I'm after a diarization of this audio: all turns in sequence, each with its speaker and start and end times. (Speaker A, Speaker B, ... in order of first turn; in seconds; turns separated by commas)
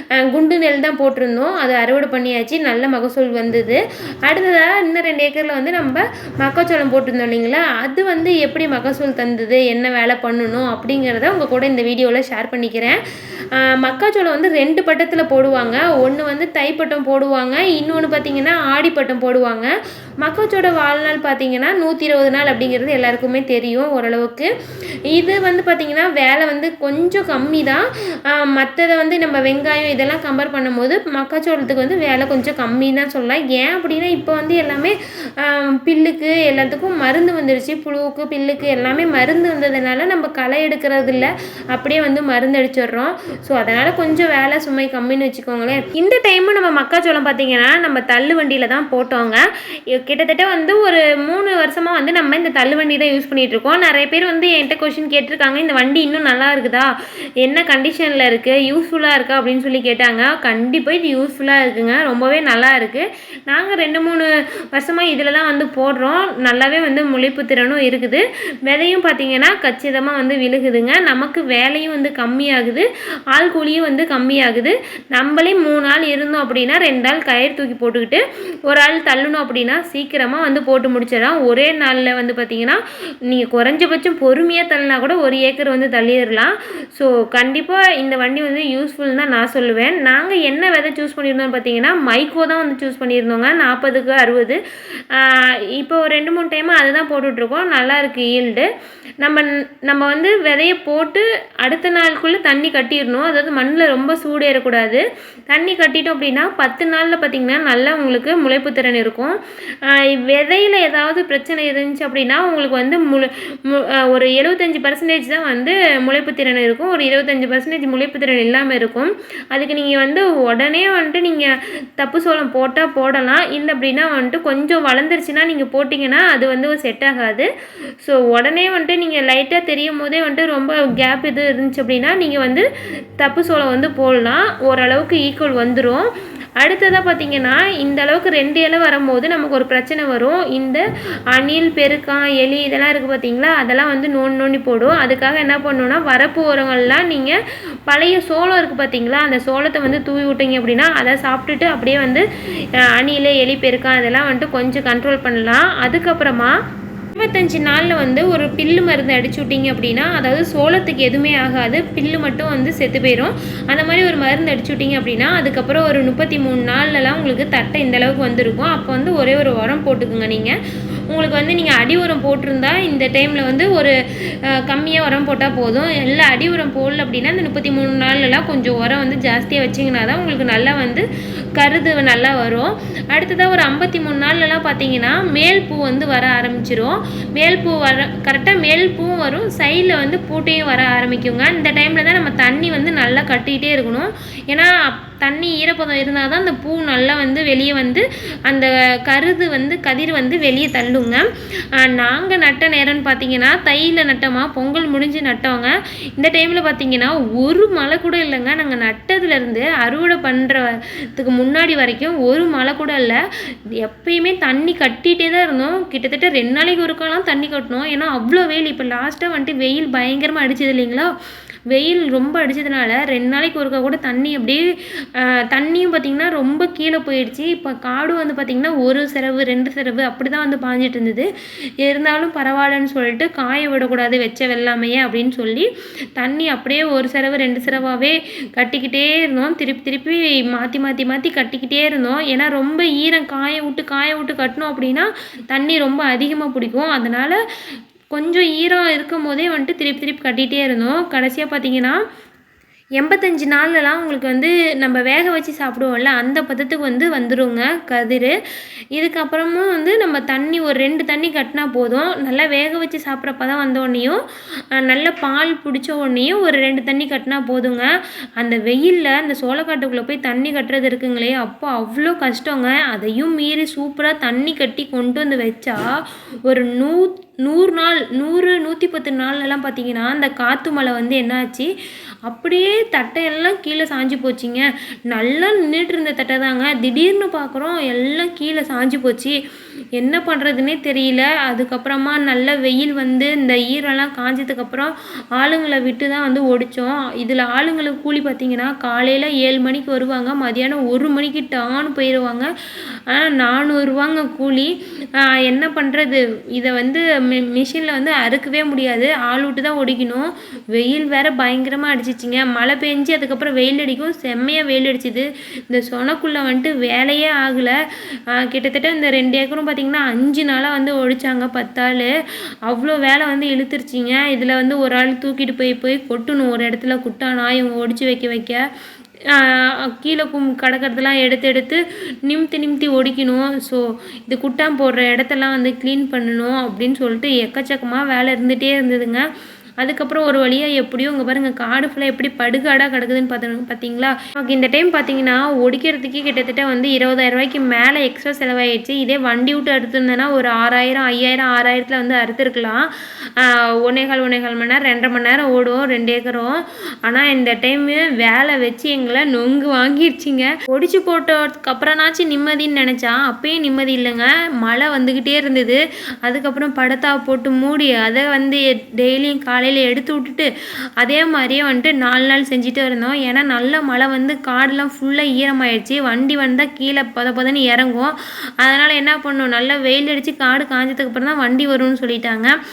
Speaker A: 0.1-13.0, Speaker A: 13.5-24.5, Speaker A: 25.1-56.9, Speaker A: 57.4-98.7, Speaker A: 99.2-127.5, Speaker A: 128.0-132.6, Speaker A: 133.2-136.1, Speaker A: 136.6-152.2, Speaker A: 152.8-156.6, Speaker A: 157.2-170.6, Speaker A: 171.1-173.9, Speaker A: 174.5-181.1, Speaker A: 181.6-213.2, Speaker A: 213.8-221.1, Speaker A: 221.7-224.6, Speaker A: 225.2-231.3, Speaker A: 231.8-247.4, Speaker A: 248.1-252.0, Speaker A: 253.0-258.3, Speaker A: 258.9-264.2, Speaker A: 264.7-275.8, Speaker A: 276.4-281.7, Speaker A: 282.2-289.4, Speaker A: 290.0-302.5, Speaker A: 303.1-317.8, Speaker A: 318.3-322.1, Speaker A: 322.7-328.6, Speaker A: 329.3-339.2, Speaker A: 339.8-370.5, Speaker A: 371.0-382.5